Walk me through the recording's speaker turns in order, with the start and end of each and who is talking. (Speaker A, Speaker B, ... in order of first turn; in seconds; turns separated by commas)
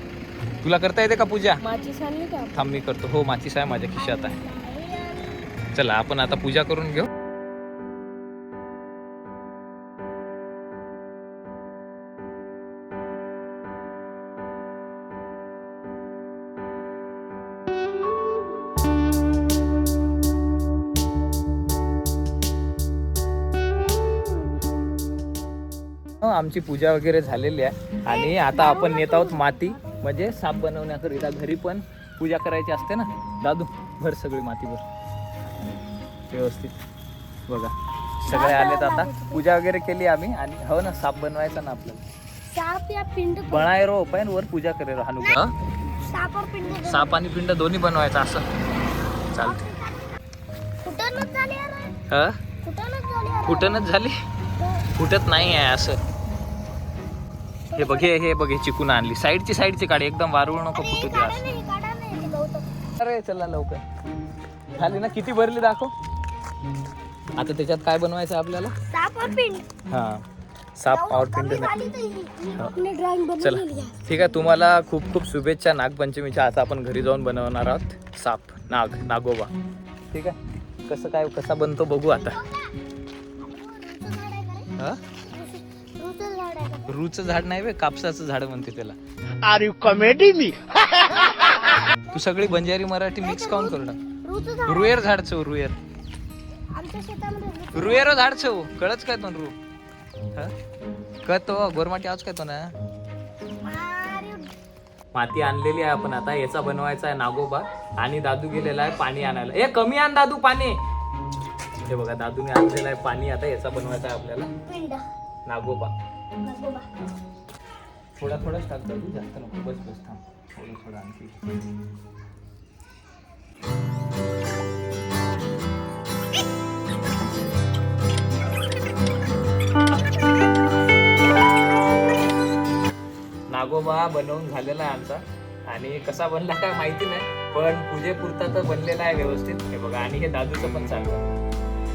Speaker A: 0.6-1.6, Speaker B: 1.6-2.5, Speaker A: 2.5-4.4, Speaker B: 4.0-5.4, Speaker A: 5.7-7.1, Speaker A: 26.2-34.8, Speaker B: 28.1-30.0, Speaker A: 36.3-36.8, Speaker A: 37.5-37.7, Speaker A: 38.2-42.0, Speaker B: 38.2-39.4, Speaker B: 42.5-43.7, Speaker A: 43.5-45.5, Speaker B: 46.0-47.1, Speaker A: 46.8-48.4, Speaker B: 49.1-50.2, Speaker A: 49.3-49.6, Speaker B: 50.8-51.9, Speaker A: 52.1-52.4, Speaker B: 52.6-53.8, Speaker A: 53.4-54.1, Speaker B: 54.6-54.9, Speaker A: 54.9-56.0, Speaker B: 57.7-58.1, Speaker A: 57.7-61.4, Speaker B: 60.7-62.6, Speaker A: 63.0-63.8, Speaker A: 64.7-65.9, Speaker A: 67.3-68.7, Speaker B: 68.9-69.7, Speaker A: 69.9-70.2, Speaker A: 70.8-71.7, Speaker B: 70.9-74.3, Speaker A: 73.4-79.5, Speaker A: 80.1-82.4, Speaker B: 82.2-82.7, Speaker B: 83.4-84.7, Speaker B: 85.3-86.9, Speaker A: 86.9-89.0, Speaker C: 89.4-91.6, Speaker A: 92.1-94.0, Speaker B: 93.2-95.0, Speaker A: 94.7-95.8, Speaker B: 96.7-98.2, Speaker A: 97.7-99.5, Speaker A: 101.2-102.7, Speaker B: 103.6-104.5, Speaker A: 105.1-110.8, Speaker A: 111.8-114.5, Speaker B: 114.7-115.0, Speaker A: 115.5-115.9, Speaker B: 116.4-116.9, Speaker A: 118.2-121.4, Speaker A: 133.5-141.4